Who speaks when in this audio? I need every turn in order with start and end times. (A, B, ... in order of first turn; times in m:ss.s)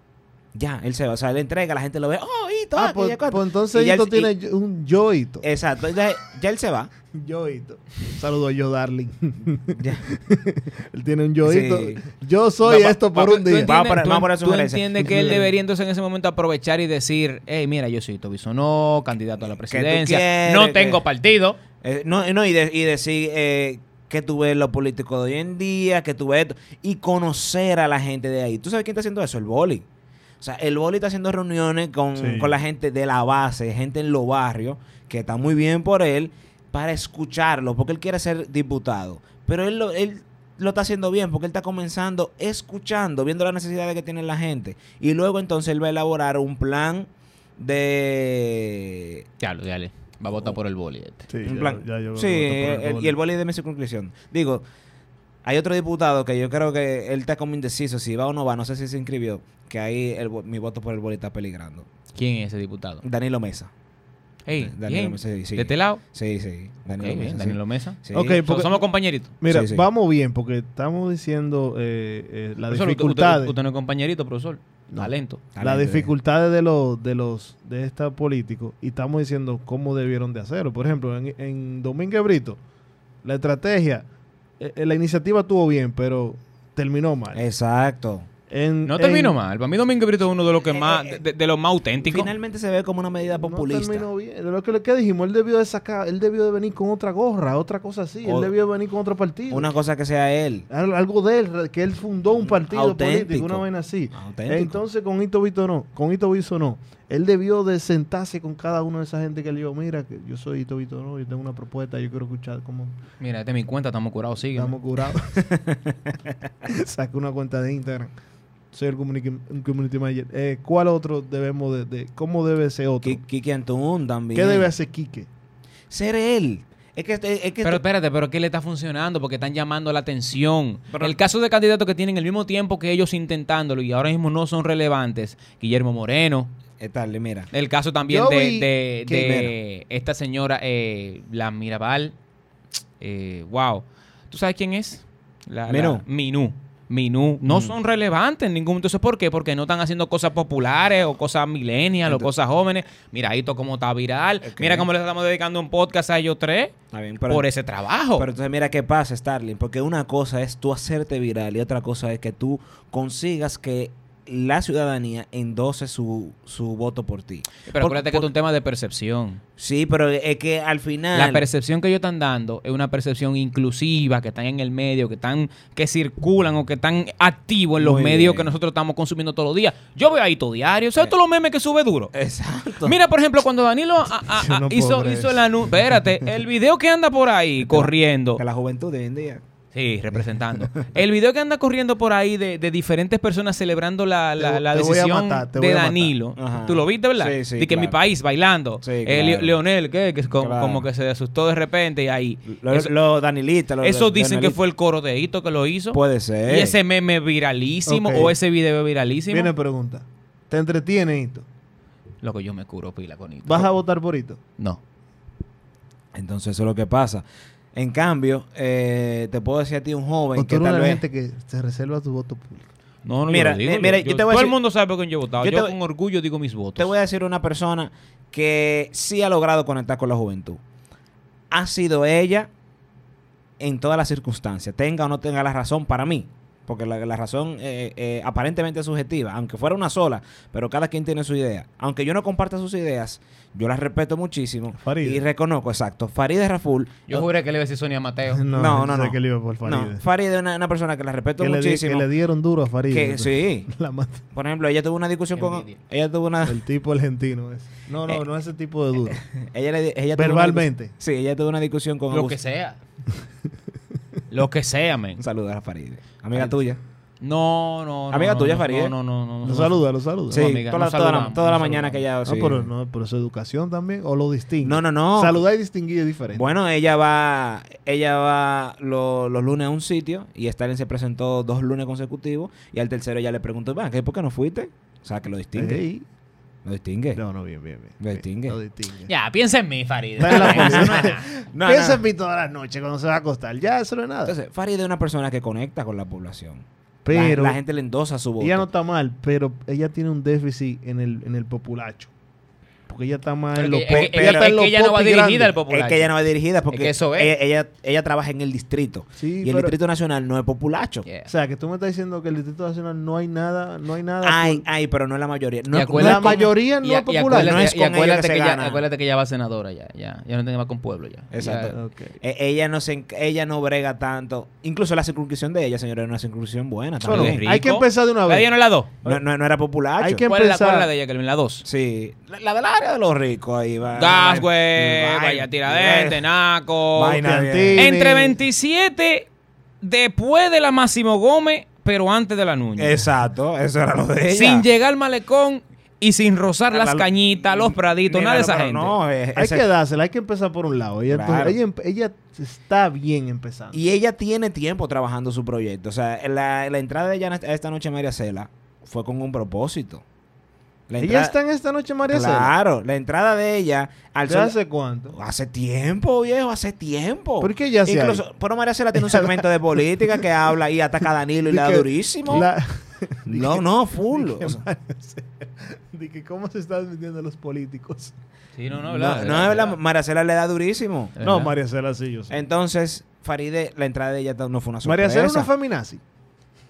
0:00.6-0:04.3 A
0:02.8-0:05.4 B
0:05.4-0:06.9 A
0:07.1-0:13.7 B
0:09.8-0:10.0 A
0:11.4-0:12.0 A
0:12.7-0:21.6 C
0:13.4-0:15.4 A
0:15.0-0:15.5 B
0:19.7-0:21.0 A
0:21.8-0:29.8 A
0:30.4-0:49.2 A
0:32.2-0:32.6 B
0:49.4-0:51.3 C
0:51.3-0:53.2 B
0:51.4-0:54.6 A
0:55.4-1:01.9 A
1:02.2-1:03.0 C
1:03.0-1:03.7 A
1:04.5-1:06.0 C
1:04.5-1:08.4 A
1:07.0-1:09.3 C
1:08.1-1:08.9 B
1:09.4-1:13.6 B
1:09.5-1:09.8 A
1:12.7-1:15.4 C
1:14.9-1:22.6 B
1:15.6-1:16.1 A
1:23.2-1:24.1 B
1:24.6-1:27.4 B
1:27.4-1:28.3 A
1:28.5-1:29.4 B
1:28.9-1:32.3 C
1:30.7-1:31.2 A
1:32.1-1:34.1 A
1:33.4-1:39.7 B
1:38.2-1:38.5 A
1:39.5-1:40.7 A
1:40.7-1:53.0 B
1:42.4-1:44.8 A
1:53.2-1:54.8 C
1:54.6-1:55.5 B
1:55.4-1:56.0 A
1:56.6-1:58.1 B
1:58.7-2:03.2 B
2:03.0-2:04.7 A
2:04.3-2:05.3 B
2:05.9-2:07.8 A
2:07.6-2:16.5 C
2:10.9-2:11.2 A
2:16.8-2:17.5 A
2:17.5-2:22.2 C
2:18.1-2:19.4 B
2:19.2-2:19.5 A
2:23.0-2:36.7 C
2:25.7-2:26.0 A
2:27.5-2:27.8 A
2:34.4-2:34.9 A
2:36.9-2:37.5 A
2:37.3-2:38.3 C
2:38.2-2:48.3 A
2:47.7-2:49.4 C
2:49.6-2:51.4 A
2:51.1-3:02.1 C
2:57.8-2:58.5 A
3:02.1-3:03.0 A
3:02.8-3:08.4 C
3:04.4-3:05.4 B
3:07.6-3:09.4 A
3:09.7-3:22.9 C
3:10.1-3:10.9 A
3:14.4-3:16.2 B
3:16.4-3:18.0 A
3:18.8-3:19.6 A
3:20.4-3:20.8 A
3:22.5-3:24.6 A
3:23.8-3:29.5 C
3:25.9-3:26.8 A
3:27.9-3:28.4 B
3:29.3-3:31.5 B
3:32.2-3:33.7 C
3:33.4-3:34.4 B
3:36.1-3:37.2 A
3:37.8-3:41.0 A
3:40.4-3:42.7 B
3:43.0-3:46.9 C
3:43.3-3:44.6 A
3:45.4-3:45.7 A
3:46.8-3:50.6 A
3:51.5-3:52.5 A
3:53.6-4:07.3 A
4:04.8-4:05.2 B
4:07.1-4:08.5 C
4:08.3-4:10.0 B
4:08.5-4:12.1 A
4:11.4-4:14.2 B
4:12.9-4:13.7 A
4:14.3-4:16.6 A
4:15.4-4:15.8 C
4:16.5-4:19.2 B
4:19.1-4:22.4 A
4:20.2-4:20.9 B
4:22.1-4:22.8 C
4:24.3-4:25.2 C
4:25.2-4:26.8 A
4:27.2-4:32.0 C
4:28.1-4:28.9 A
4:29.4-4:30.5 B
4:30.3-4:32.7 A
4:32.2-4:36.5 B
4:34.6-4:35.4 A
4:36.3-4:45.8 A
4:45.6-4:46.1 B
4:46.6-4:47.2 A
4:47.2-4:49.1 B
4:48.0-4:48.6 A
4:49.1-4:51.2 C
4:50.2-4:54.4 B
4:50.3-4:52.0 A
4:54.2-4:58.7 A
4:57.0-4:57.6 B
4:58.4-5:02.1 B
5:02.9-5:05.5 B
5:03.6-5:06.1 C
5:03.9-5:04.5 A
5:05.7-5:11.0 A
5:06.7-5:07.3 C
5:09.2-5:09.8 B
5:11.3-5:14.6 B
5:14.2-5:16.5 A
5:15.7-5:21.8 C
5:16.0-5:17.6 B
5:17.3-5:18.8 A
5:21.3-5:27.5 A
5:21.7-5:22.2 B
5:27.0-5:28.5 B
5:27.1-5:28.9 C
5:29.0-5:30.2 A
5:30.0-5:30.9 B
5:30.3-5:31.6 C
5:31.6-5:36.2 A
5:34.0-5:37.2 C
5:37.0-5:37.9 A
5:37.2-5:38.4 B
5:37.8-5:39.3 C
5:39.8-5:43.0 C
5:42.8-5:44.6 A
5:44.3-5:48.9 C
5:46.7-5:49.6 A
5:49.4-5:53.8 B
5:51.1-5:51.6 A
5:53.7-6:00.0 A
6:00.9-6:01.3 A
6:01.0-6:02.5 B
6:02.1-6:04.6 A
6:04.3-6:05.2 B
6:05.1-6:12.5 A
6:07.4-6:08.2 B
6:08.9-6:10.2 B
6:11.5-6:18.2 B
6:13.3-6:14.6 A
6:18.6-6:19.8 C
6:18.9-6:21.2 A
6:21.2-6:21.5 C
6:21.2-6:22.4 B
6:22.3-6:25.5 A
6:24.8-6:26.0 B